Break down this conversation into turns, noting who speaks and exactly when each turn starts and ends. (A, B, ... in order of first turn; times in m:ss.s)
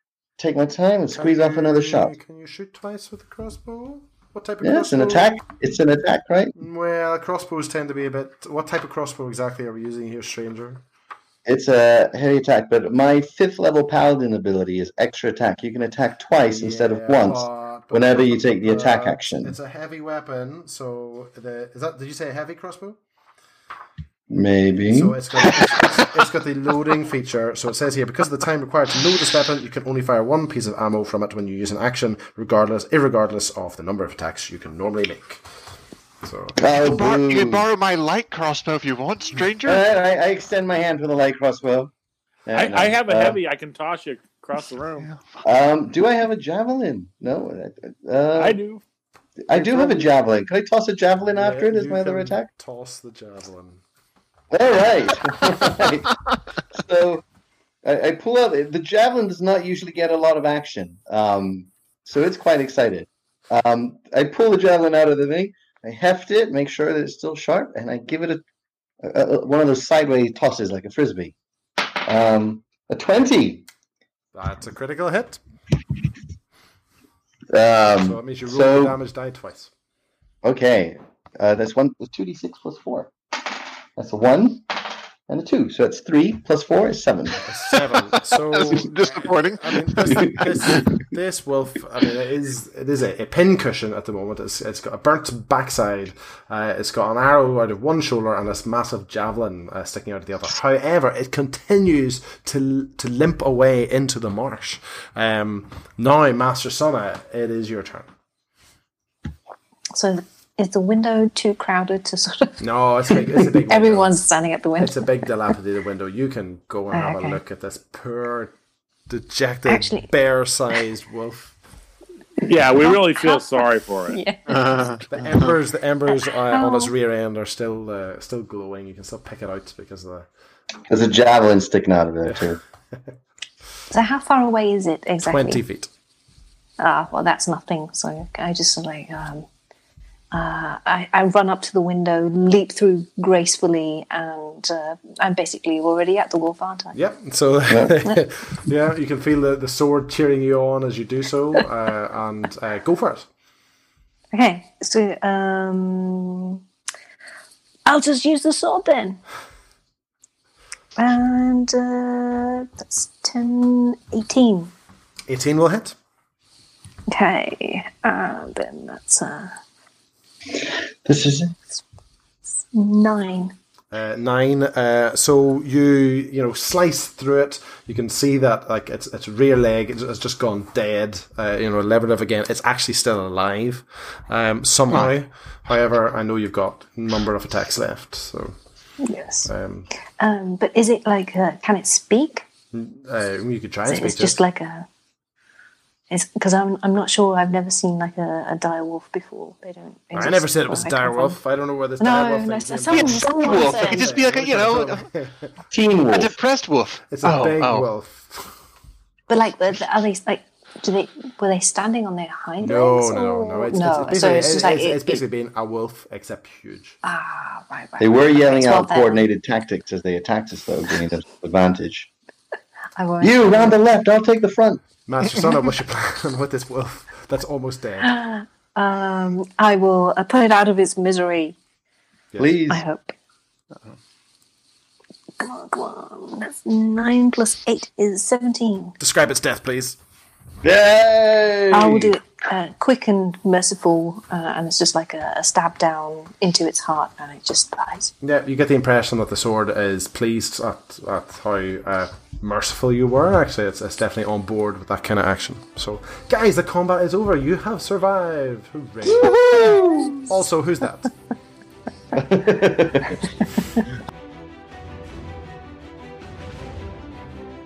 0:00.4-0:02.1 A
0:01.1-0:05.4 B
0:04.6-0:06.6 A
0:06.6-0:10.8 B
0:11.4-0:19.6 A
0:16.4-0:23.0 B
0:24.3-0:25.2 A
0:24.9-0:35.4 B
0:36.2-0:37.0 B
0:36.6-0:37.7 A
0:36.8-0:39.8 C
0:39.6-0:41.9 A
0:42.5-0:43.4 A
0:42.5-0:45.1 D
0:45.0-0:45.4 C
0:45.4-0:48.6 A
0:48.4-0:48.8 D
0:49.5-0:52.5 A
0:49.6-0:50.1 B
0:51.3-0:53.8 B
0:54.5-0:56.2 A
0:56.7-0:57.2 A
0:57.8-1:08.4 A
1:09.0-1:13.7 A
1:14.3-1:15.4 B
1:17.5-1:19.0 A
1:18.0-1:19.7 B
1:20.4-1:27.4 A
1:27.4-1:48.1 B
1:28.1-1:30.5 C
1:30.1-1:30.8 A
1:49.9-1:52.6 E
1:52.6-1:54.2 B
1:53.7-1:55.0 E
1:54.8-1:58.5 B
1:56.9-1:57.4 E
1:59.1-2:01.6 B
1:59.7-2:00.1 E
2:02.4-2:04.2 D
2:02.8-2:03.4 E
2:04.1-2:04.8 E
2:04.5-2:05.5 C
2:05.1-2:10.3 B
2:06.5-2:06.9 E
2:10.9-2:12.6 A
2:13.9-2:15.6 E
2:15.2-2:15.9 B
2:16.8-2:19.5 E
2:20.3-2:27.0 E
2:26.9-2:33.3 B
2:27.7-2:28.0 A
2:34.3-2:36.6 E
2:37.9-2:39.2 E
2:41.0-2:44.7 E
2:45.3-2:46.0 B
2:47.1-2:49.6 E
2:50.5-2:51.6 A
2:52.7-2:53.6 E
2:53.9-3:08.6 B
3:09.0-3:09.5 E
3:09.5-3:09.9 B
3:10.2-3:12.4 E
3:12.7-3:14.4 B
3:13.9-3:14.9 E
3:16.1-3:21.4 E
3:20.1-3:25.6 B
3:22.0-3:24.1 E
3:22.9-3:25.1 C
3:25.7-3:26.3 A
3:26.1-3:27.9 C
3:27.1-3:28.6 B
3:29.3-3:35.2 E
3:32.6-3:37.0 B
3:37.0-3:39.3 E
3:38.0-3:42.1 A
3:43.0-3:43.8 E
3:43.2-3:44.8 A
3:45.1-3:48.1 B
3:48.0-3:51.6 E
3:52.4-3:52.8 A
3:52.7-3:53.2 E
3:55.4-3:59.0 E
3:59.0-4:00.0 B
4:00.6-4:02.2 A
4:01.7-4:08.1 E
4:08.2-4:19.7 B
4:19.1-4:20.2 C
4:19.5-4:20.2 E
4:20.2-4:21.1 B
4:22.1-4:23.2 A